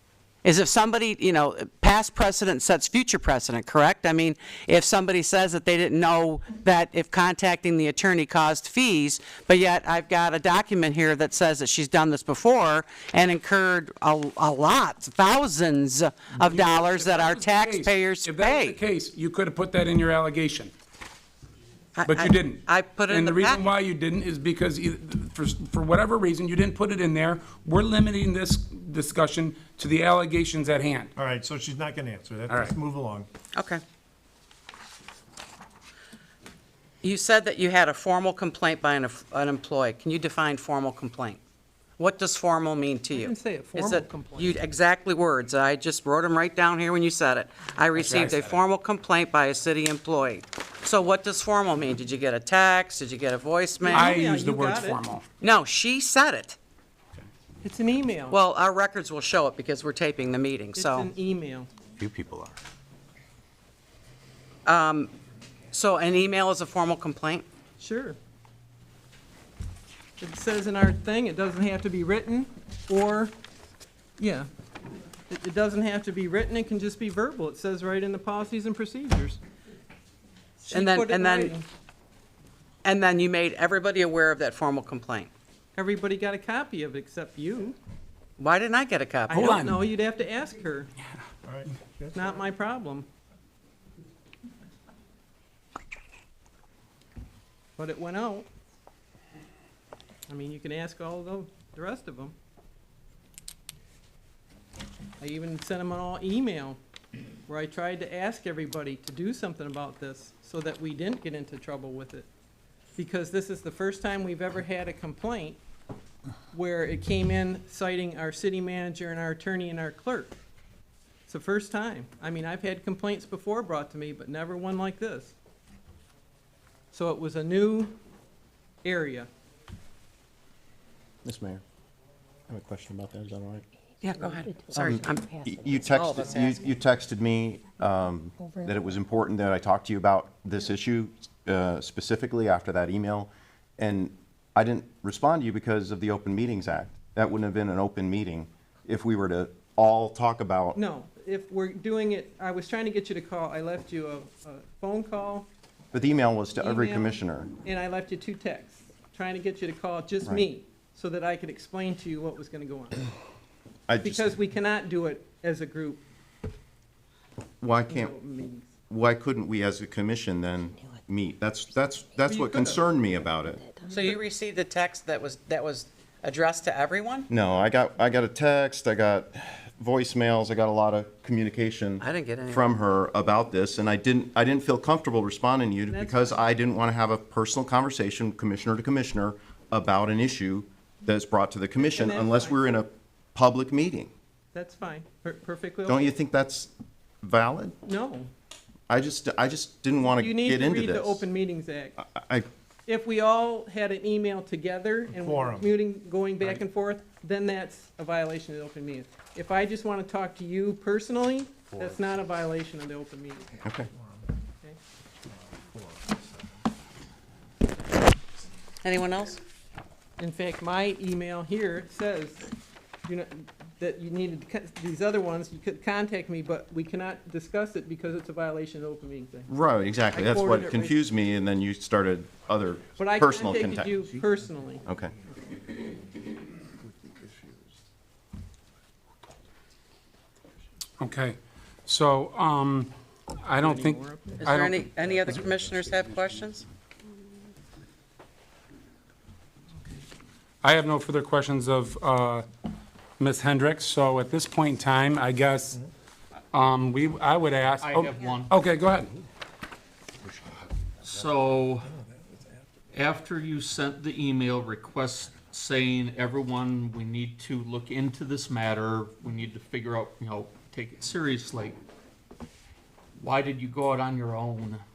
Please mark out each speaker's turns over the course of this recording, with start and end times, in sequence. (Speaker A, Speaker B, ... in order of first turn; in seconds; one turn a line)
Speaker A: 0.4-18.8
Speaker B: 16.3-20.7
Speaker A: 21.9-23.6
Speaker B: 22.0-31.1
Speaker C: 31.1-33.3
Speaker B: 32.5-32.7
Speaker A: 33.5-33.8
Speaker A: 37.0-41.4
Speaker A: 42.0-54.1
Speaker D: 43.1-44.6
Speaker B: 48.0-48.6
Speaker D: 53.8-55.0
Speaker B: 53.9-55.3
Speaker A: 55.4-56.6
Speaker D: 57.6-58.4
Speaker A: 58.3-61.1
Speaker D: 60.7-61.7
Speaker B: 62.0-62.5
Speaker A: 64.7-65.1
Speaker A: 65.7-67.5
Speaker D: 67.8-68.2
Speaker D: 70.2-73.3
Speaker D: 74.2-74.5
Speaker D: 75.3-79.4
Speaker D: 80.6-81.7
Speaker A: 80.7-81.5
Speaker A: 82.8-85.3
Speaker D: 85.7-87.8
Speaker A: 88.4-89.5
Speaker D: 89.3-90.9
Speaker B: 89.3-89.9
Speaker C: 91.4-92.4
Speaker D: 92.1-93.1
Speaker D: 97.8-98.5
Speaker D: 100.3-102.3
Speaker D: 105.2-106.8
Speaker D: 107.5-112.3
Speaker D: 113.0-115.6
Speaker D: 116.5-120.3
Speaker D: 121.3-125.3
Speaker D: 126.9-127.9
Speaker D: 128.8-129.3
Speaker E: 131.2-131.6
Speaker E: 132.5-133.7
Speaker A: 134.0-136.6
Speaker E: 134.7-150.8
Speaker D: 150.7-155.5
Speaker E: 155.9-157.5
Speaker D: 156.6-163.1
Speaker E: 163.9-164.3
Speaker D: 164.0-166.0
Speaker E: 167.6-168.1
Speaker D: 167.9-168.7
Speaker E: 168.9-173.6
Speaker D: 172.3-172.8
Speaker D: 173.8-174.2
Speaker A: 173.9-177.3
Speaker E: 177.3-194.1
Speaker A: 182.0-182.7
Speaker D: 185.9-186.4
Speaker D: 191.8-192.6
Speaker D: 194.5-196.0
Speaker E: 195.8-196.7
Speaker E: 197.2-197.8
Speaker D: 197.8-198.3
Speaker E: 198.9-201.2
Speaker D: 200.1-202.0
Speaker E: 202.0-202.5
Speaker D: 202.9-213.6
Speaker C: 205.2-205.7
Speaker A: 218.8-219.4
Speaker D: 220.2-222.5
Speaker D: 223.0-229.5
Speaker E: 229.5-233.9
Speaker D: 230.1-231.0
Speaker D: 233.0-234.8
Speaker E: 234.8-235.1
Speaker B: 241.0-244.8
Speaker D: 243.6-244.4
Speaker A: 244.4-246.6
Speaker B: 250.6-252.5
Speaker B: 253.2-255.8
Speaker B: 256.5-259.1
Speaker F: 257.8-258.5
Speaker F: 261.0-261.9
Speaker F: 262.9-271.8
Speaker F: 273.2-274.8